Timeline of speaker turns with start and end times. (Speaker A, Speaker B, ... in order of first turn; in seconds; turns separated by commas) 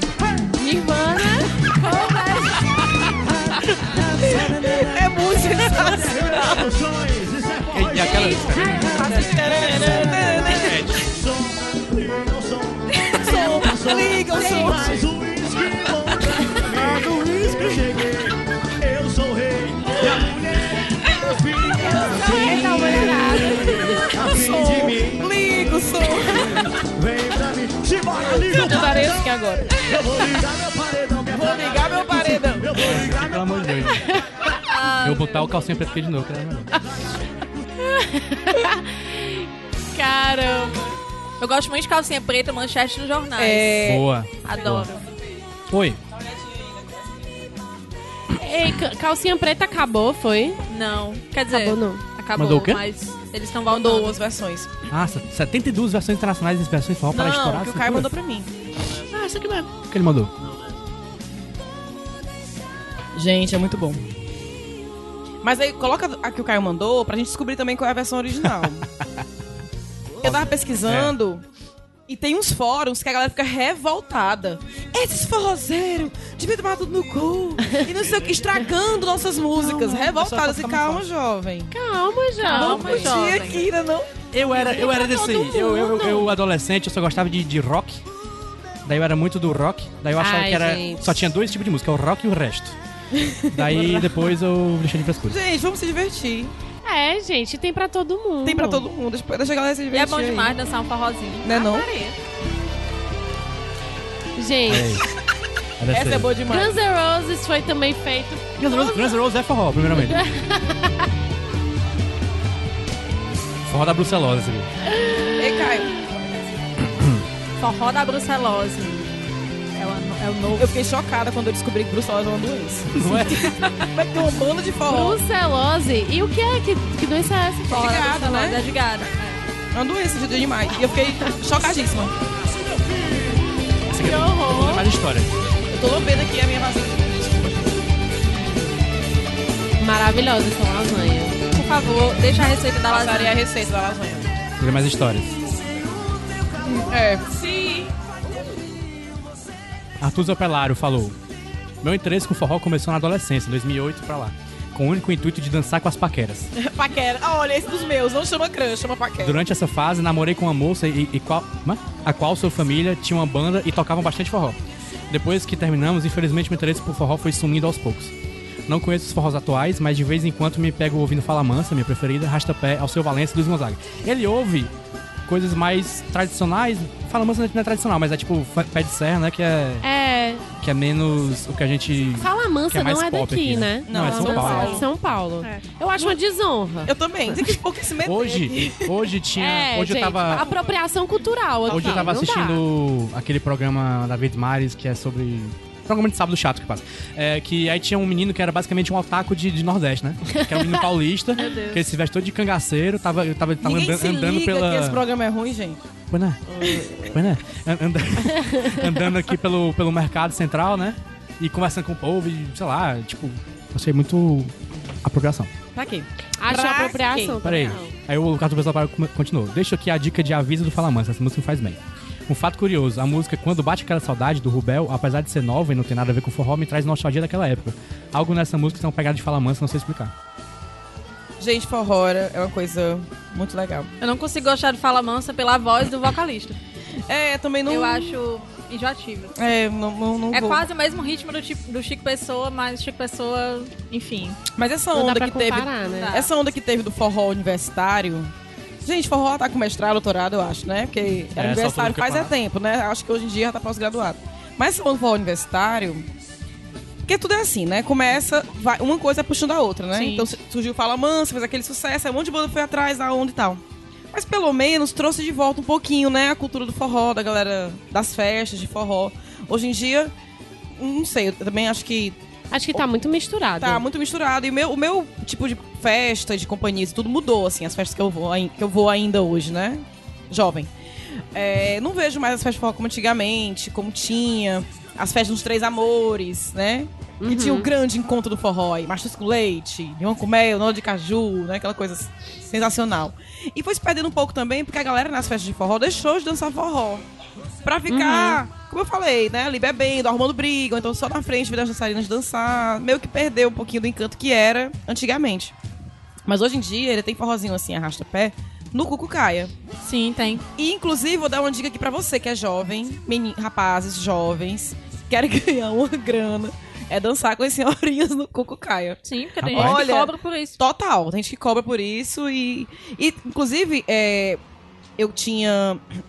Speaker A: 0.6-2.5, Speaker B: 2.0-2.5, Speaker C: 3.0-34.6, Speaker D: 4.2-6.7, Speaker E: 7.7-8.9, Speaker A: 8.1-9.4, Speaker B: 8.9-9.3, Speaker D: 9.0-10.8, Speaker E: 9.8-11.0, Speaker D: 13.1-15.0, Speaker D: 16.8-17.4, Speaker A: 21.9-24.1, Speaker D: 22.2-26.7, Speaker B: 23.1-23.5, Speaker A: 28.3-29.8, Speaker D: 31.3-32.8, Speaker E: 32.8-34.1, Speaker B: 34.6-35.5, Speaker E: 35.0-36.7, Speaker C: 36.7-37.6, Speaker A: 37.8-41.0, Speaker B: 41.4-45.0, Speaker D: 43.4-44.0, Speaker E: 43.8-44.9, Speaker E: 45.7-46.0, Speaker A: 48.4-50.6, Speaker B: 50.7-54.2, Speaker A: 51.5-52.0, Speaker E: 52.4-52.8, Speaker D: 53.7-54.7, Speaker E: 54.9-58.1, Speaker D: 57.1-58.5, Speaker E: 59.1-60.3, Speaker D: 63.1-64.0, Speaker D: 65.4-68.8, Speaker D: 70.2-71.5, Speaker E: 70.2-71.2, Speaker D: 72.1-81.7, Speaker E: 79.5-81.0, Speaker A: 81.7-83.2, Speaker B: 82.4-83.7, Speaker D: 82.5-84.1, Speaker E: 84.3-88.0, Speaker A: 84.5-86.3, Speaker E: 88.8-92.8, Speaker A: 90.2-91.2, Speaker D: 93.1-94.3, Speaker E: 93.5-95.4, Speaker D: 95.3-96.5, Speaker A: 96.8-98.8, Speaker D: 98.4-100.5, Speaker B: 99.9-102.2, Speaker D: 101.4-101.9, Speaker A: 104.3-105.0, Speaker E: 104.7-105.1, Speaker E: 105.8-106.3, Speaker D: 105.9-106.8, Speaker A: 106.5-109.1, Speaker E: 108.6-110.3, Speaker A: 109.9-111.1, Speaker E: 113.7-114.7, Speaker A: 115.0-115.7, Speaker D: 115.4-116.0, Speaker E: 116.9-117.2, Speaker B: 117.6-119.1, Speaker B: 119.8-120.7, Speaker D: 120.6-125.2, Speaker E: 123.0-123.5, Speaker A: 124.9-127.8, Speaker D: 127.7-128.6, Speaker B: 127.7-129.4, Speaker D: 129.7-132.1, Speaker C: 132.4-133.5, Speaker E: 133.9-135.3, Speaker A: 134.0-134.9, Speaker D: 135.7-137.7, Speaker A: 139.8-141.4, Speaker B: 141.5-143.4, Speaker D: 142.9-144.3, Speaker E: 144.6-145.3, Speaker C: 145.3-147.6, Speaker D: 146.8-147.3, Speaker C: 148.4-149.1, Speaker E: 150.0-151.2, Speaker E: 151.8-156.5, Speaker D: 156.6-159.4, Speaker E: 159.2-164.6, Speaker E: 165.1-168.1, Speaker E: 168.7-174.7, Speaker E: 175.3-179.9, Speaker A: 179.8-180.5, Speaker E: 180.6-184.8, Speaker A: 182.2-186.9, Speaker D: 183.9-184.9, Speaker B: 184.5-184.9, Speaker D: 186.9-188.9, Speaker E: 188.0-190.5, Speaker A: 189.3-192.6, Speaker D: 191.7-192.2, Speaker E: 191.7-205.0, Speaker A: 200.4-200.8, Speaker B: 201.4-201.8, Speaker D: 203.6-205.8, Speaker E: 206.1-215.5, Speaker D: 206.6-207.2, Speaker A: 208.3-208.9, Speaker D: 215.8-217.7, Speaker A: 216.4-217.9, Speaker E: 217.4-230.1, Speaker D: 231.4-233.9, Speaker B: 234.0-236.6, Speaker D: 237.1-238.2, Speaker B: 237.7-239.3, Speaker D: 239.4-240.7, Speaker B: 240.3-244.4, Speaker D: 244.6-248.3, Speaker A: 244.9-246.2, Speaker B: 245.8-246.3, Speaker D: 248.8-256.1, Speaker E: 251.3-252.3, Speaker D: 257.1-263.6, Speaker B: 259.9-260.3, Speaker D: 264.1-270.1, Speaker D: 270.8-272.2, Speaker A: 272.5-273.8, Speaker D: 273.6-280.7, Speaker D: 281.3-297.1, Speaker A: 287.2-287.7, Speaker D: 297.6-305.5, Speaker A: 297.9-298.4, Speaker D: 306.3-309.5, Speaker B: 309.8-310.4, Speaker D: 310.6-324.4, Speaker B: 319.1-320.6, Speaker E: 319.4-319.8, Speaker D: 325.0-325.8